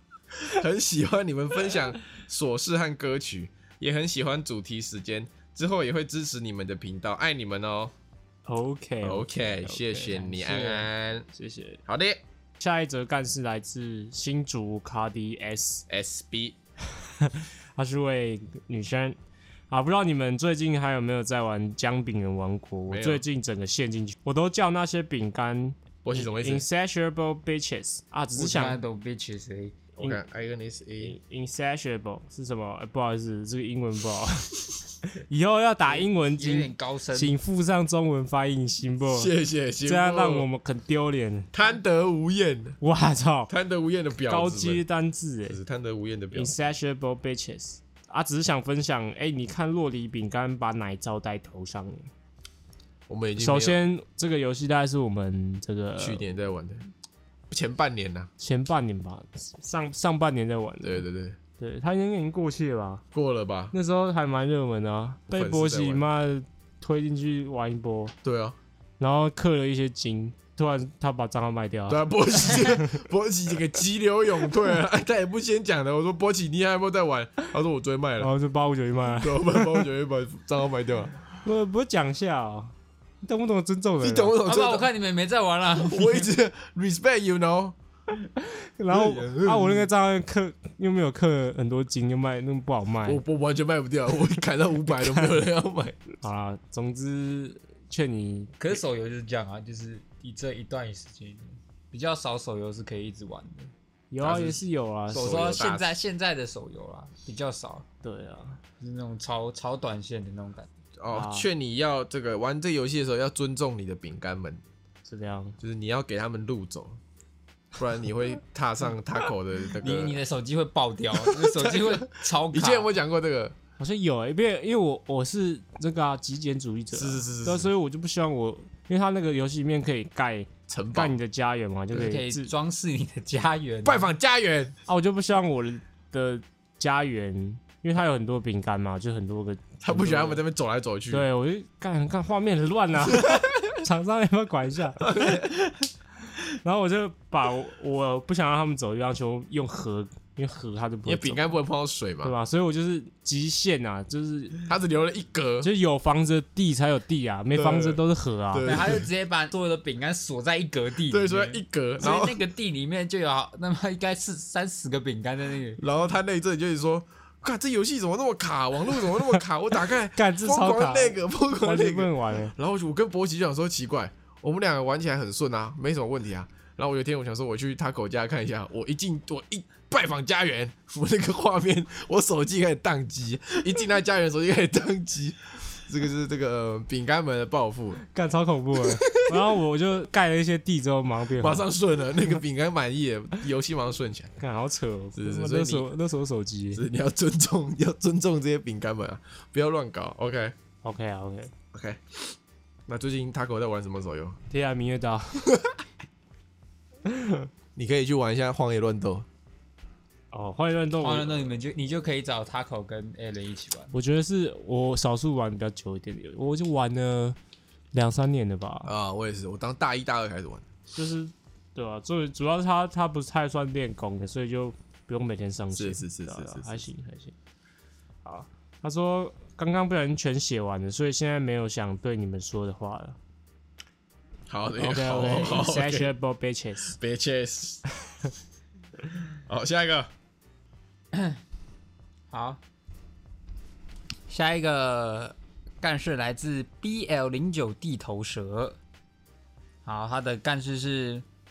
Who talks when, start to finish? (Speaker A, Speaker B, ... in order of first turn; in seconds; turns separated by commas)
Speaker A: 0.4-7.9, Speaker B: 8.5-11.8, Speaker A: 9.0-11.3, Speaker A: 11.9-12.2, Speaker B: 12.6-15.8, Speaker A: 15.9-16.6, Speaker B: 17.0-19.2, Speaker B: 19.7-28.8, Speaker A: 22.9-23.2, Speaker A: 26.0-26.7, Speaker C: 28.4-29.8, Speaker A: 30.0-31.2, Speaker B: 31.0-39.3, Speaker C: 35.9-37.4, Speaker A: 39.1-40.5, Speaker B: 39.8-41.5, Speaker A: 41.5-42.8, Speaker B: 42.8-43.5, Speaker A: 43.5-44.8, Speaker B: 44.3-45.6, Speaker A: 45.5-46.6, Speaker B: 46.3-52.1, Speaker A: 53.1-53.8, Speaker B: 53.4-56.2, Speaker A: 56.0-56.9, Speaker A: 57.5-58.3, Speaker B: 58.4-61.1, Speaker A: 60.8-61.4, Speaker B: 61.6-63.0, Speaker A: 63.1-63.7, Speaker B: 63.7-68.2, Speaker A: 65.3-66.0, Speaker A: 68.2-68.6, Speaker B: 69.0-73.0, Speaker A: 71.9-78.3, Speaker B: 78.2-79.9, Speaker A: 79.2-81.2, Speaker B: 81.4-84.3, Speaker A: 84.0-84.9, Speaker C: 84.5-86.3, Speaker A: 85.8-87.8, Speaker B: 88.4-93.2, Speaker A: 88.9-89.8, Speaker A: 93.0-96.0, Speaker B: 96.2-98.8, Speaker C: 98.6-103.7, Speaker B: 104.1-105.6, Speaker A: 104.2-106.0, Speaker C: 105.1-107.8, Speaker B: 108.0-108.6, Speaker C: 108.8-110.7, Speaker A: 111.0-114.6, Speaker B: 111.1-111.5, Speaker B: 115.1-115.6, Speaker A: 115.6-117.0, Speaker A: 117.8-120.2, Speaker C: 119.8-122.9, Speaker A: 121.2-123.6, Speaker B: 123.8-132.5, Speaker A: 126.9-127.7, Speaker A: 130.7-131.2, Speaker C: 131.9-134.1, Speaker A: 133.8-134.8, Speaker B: 134.9-140.4, Speaker A: 139.8-141.3, Speaker B: 141.1-145.4, Speaker A: 145.0-145.6, Speaker B: 146.6-151.5, Speaker A: 151.1-152.3, Speaker B: 152.2-154.6, Speaker A: 154.7-155.7, Speaker B: 155.6-158.8, Speaker A: 157.5-159.1, Speaker C: 158.7-165.8, Speaker A: 161.1-162.4, Speaker A: 165.8-188.0, Speaker B: 169.4-172.6, Speaker B: 188.1-191.7, Speaker A: 188.8-189.5, Speaker A: 191.4-194.3, Speaker B: 194.4-196.8, Speaker A: 195.2-195.9, Speaker A: 196.7-200.6, Speaker B: 200.8-201.5, Speaker A: 201.7-202.3, Speaker A: 202.9-204.4, Speaker B: 204.5-205.5, Speaker B: 207.1-207.5, Speaker A: 207.8-209.3, Speaker B: 210.3-211.6, Speaker C: 211.0-213.9, Speaker B: 213.9-217.4, Speaker B: 217.9-218.9, Speaker A: 218.8-220.7, Speaker B: 220.9-227.3, Speaker A: 225.7-226.8, Speaker B: 228.2-233.2, Speaker A: 234.5-236.1, Speaker B: 234.8-237.0, Speaker A: 236.9-237.8, Speaker A: 239.5-240.1, Speaker C: 241.1-241.4, Speaker C: 242.3-242.6, Speaker C: 244.3-248.8, Speaker C: 249.8-251.2